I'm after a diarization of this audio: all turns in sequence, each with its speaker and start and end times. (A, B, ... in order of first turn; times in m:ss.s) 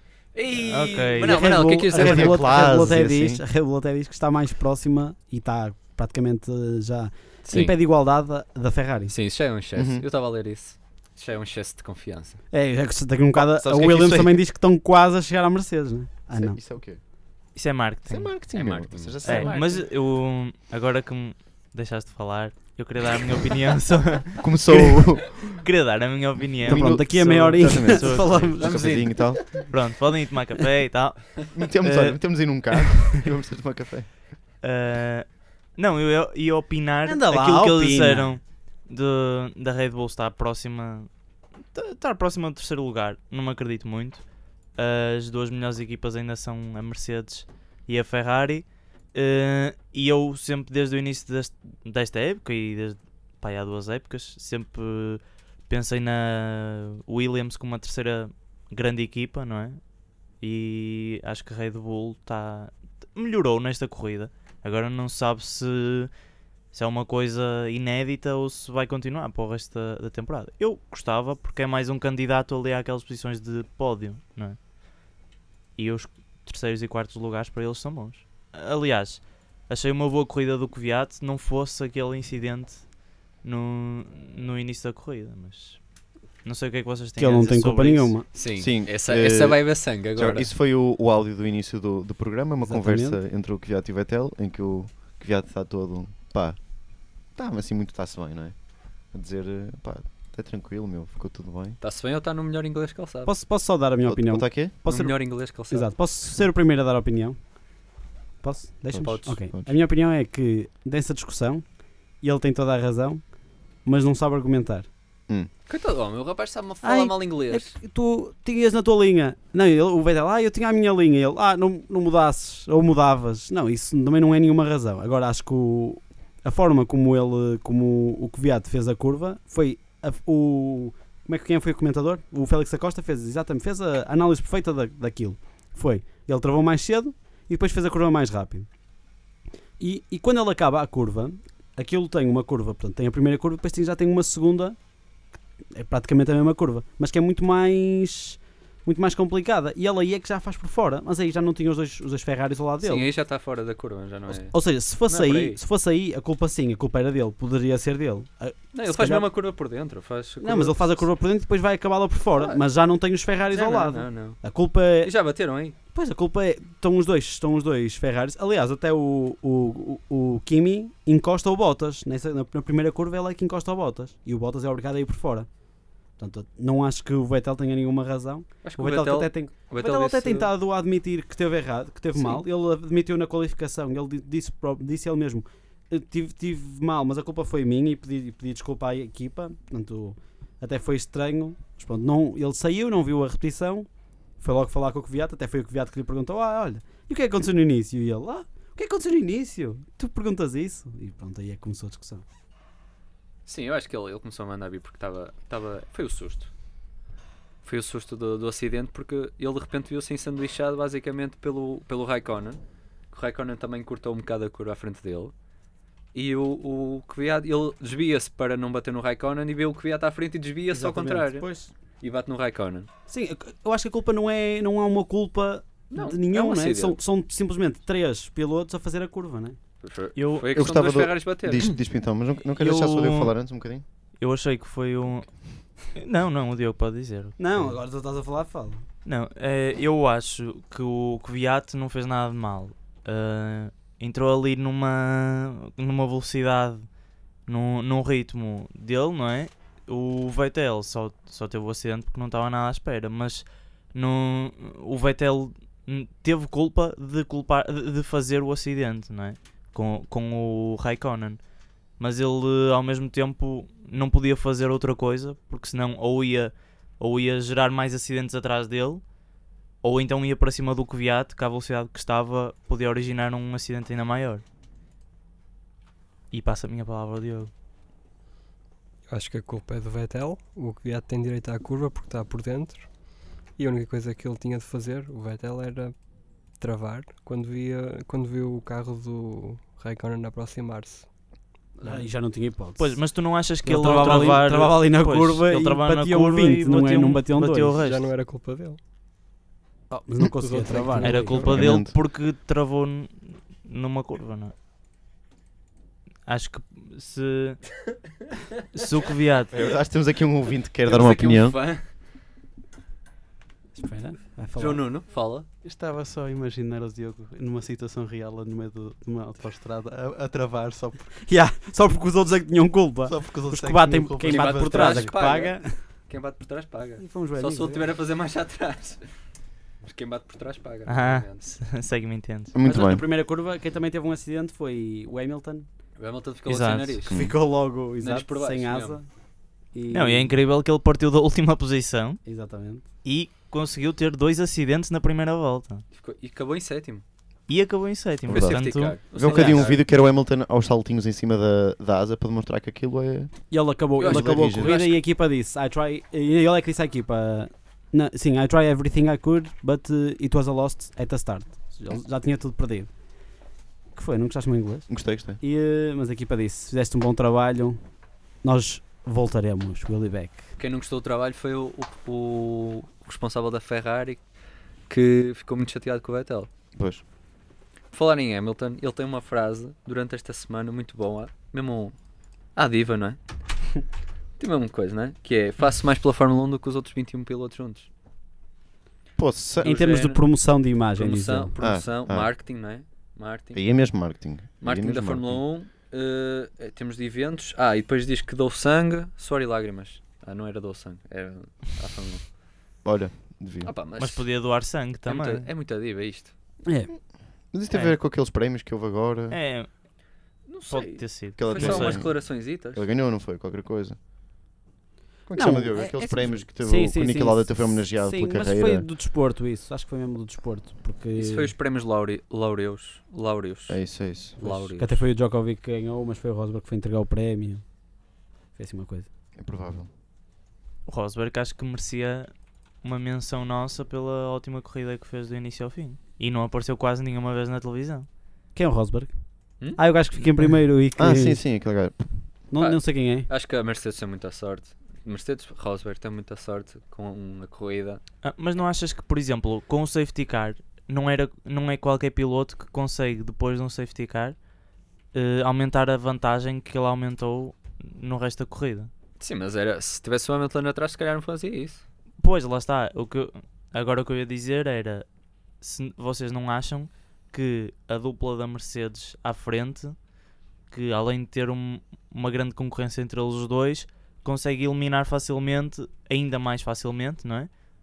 0:00.3-0:02.6 A
0:00.7-0:01.4 B
0:01.2-0:03.4 C
0:01.3-0:09.1 D
0:07.4-0:07.8 A
0:09.1-0:12.4 A
0:09.7-0:10.0 C
0:12.5-0:16.6 D
0:13.3-0:14.4 C
0:16.3-0:17.0 C
0:17.5-0:18.3 B
0:18.0-0:19.9 C
0:18.5-0:19.5 A
0:19.2-0:24.9 B
0:24.4-0:25.6 C
0:25.6-0:28.5 B
0:26.6-0:29.4 C
0:26.6-0:28.9 D
0:28.5-0:29.3 A
0:29.6-0:32.9 B
0:31.5-0:34.2 C
0:34.6-0:41.1 B
0:37.0-0:38.3 D
0:41.7-0:44.2 B
0:44.8-0:59.8 B
1:00.4-1:06.1 B
1:06.7-1:14.6 B
1:15.8-1:25.8 B
1:26.4-1:28.1 B
1:27.2-1:28.3 D
1:28.3-1:30.5 A
1:28.6-1:36.6 C
1:32.6-1:33.2 D
1:37.3-1:38.6 C
1:39.1-1:41.8 C
1:41.8-1:43.3 A
1:43.2-1:47.5 D
1:44.0-1:44.7 C
1:44.8-1:45.9 A
1:48.4-1:51.6 D
1:48.9-1:49.4 A
1:52.2-1:53.2 D
1:53.8-1:54.9 D
1:55.7-1:57.7 A
1:56.8-2:18.7 D
2:19.8-2:24.8 D
2:25.7-2:33.1 D
2:32.8-2:35.6 A
2:34.3-2:39.3 D
2:38.7-2:41.0 A
2:40.4-2:45.1 D
2:42.3-2:42.6 A
2:43.5-2:44.4 A
2:45.0-2:45.8 A
2:45.9-2:55.5 D
2:56.2-3:13.9 D
2:58.6-3:00.5 A
3:02.1-3:02.4 A
3:14.4-3:22.2 D
3:23.4-3:26.5 A
3:27.6-3:35.3 A
3:36.1-3:41.5 A
3:40.7-3:41.7 D
3:42.0-3:42.9 A
3:43.1-3:49.6 D
3:45.9-3:47.0 A
3:49.8-3:51.6 A
3:50.2-3:50.6 B
3:50.5-3:53.8 C
3:52.6-3:53.3 B
3:54.2-3:55.3 B
3:55.9-3:57.7 B
3:57.4-3:58.8 D
3:59.0-4:06.9 B
4:07.4-4:21.4 B
4:22.0-4:29.0 B
4:29.8-4:34.4 B
4:36.3-4:37.5 B
4:39.1-4:46.0 E
4:46.5-4:51.1 E
4:51.8-4:53.1 D
4:52.8-4:58.1 B
4:53.6-4:57.8 D
4:57.8-4:58.8 E
4:59.9-5:01.5 D
5:00.4-5:01.6 E
5:01.0-5:04.5 B
5:01.4-5:02.0 C
5:06.3-5:07.6 B
5:08.7-5:09.5 B
5:09.5-5:11.6 C
5:10.8-5:11.8 A
5:13.7-5:14.8 D
5:14.6-5:15.5 A
5:15.7-5:21.1 F
5:15.7-5:17.9 D
5:18.4-5:19.6 D
5:21.1-5:25.8 D
5:23.1-5:23.6 F
5:24.2-5:29.0 A
5:24.5-5:25.0 F
5:27.0-5:27.8 D
5:29.8-5:31.5 A
5:30.9-5:32.5 B
5:32.5-5:33.0 C
5:32.6-5:35.6 D
5:36.0-5:37.2 A
5:36.4-5:37.0 B
5:37.1-5:37.4 C
5:37.1-5:39.1 D
5:38.0-5:39.0 A
5:39.7-5:40.3 D
5:39.9-5:42.2 B
5:42.2-5:42.8 D
5:43.0-5:45.8 B
5:45.9-5:47.0 A
5:47.5-5:49.0 B
5:48.3-5:54.8 C
5:48.3-5:49.9 A
5:49.3-5:49.6 D
5:53.5-6:02.9 D
5:54.0-5:55.0 A
6:03.9-6:04.9 D
6:04.9-6:05.4 C
6:05.4-6:07.8 D
6:08.4-6:10.5 D
6:10.6-6:14.2 A
6:14.9-6:16.5 A
6:16.8-6:17.0 C
6:17.9-6:21.9 A
6:22.5-6:23.2 A
6:24.4-6:27.9 A
6:29.2-6:29.8 C
6:29.6-6:30.2 A
6:29.6-6:31.5 D
6:30.9-6:33.6 A
6:31.6-6:32.3 C
6:33.5-6:35.4 C
6:34.6-6:42.2 A
6:42.8-6:43.7 C
6:43.6-6:44.3 A
6:44.0-6:45.5 B
6:45.0-6:46.3 A
6:46.6-6:46.9 D
6:47.5-6:49.4 C
6:47.7-6:48.0 B
6:49.3-6:49.7 B
6:50.5-6:52.8 A
6:50.7-6:52.0 B
6:51.4-6:54.0 C
6:55.3-6:58.9 C
6:55.3-7:01.5 D
7:01.2-7:03.8 A
7:03.7-7:04.4 C
7:04.4-7:05.0 A
7:04.4-7:07.6 D
7:08.6-7:09.1 D
7:09.4-7:09.9 C
7:10.9-7:12.3 B
7:12.8-7:18.1 B
7:18.5-7:19.1 D
7:19.8-7:21.4 D
7:21.0-7:22.1 C
7:22.5-7:23.3 D
7:22.6-7:28.0 A
7:28.2-7:34.4 B
7:35.1-7:38.9 B
7:39.2-7:41.8 A
7:42.2-7:45.0 B
7:45.6-7:50.0 B
7:50.7-7:57.5 B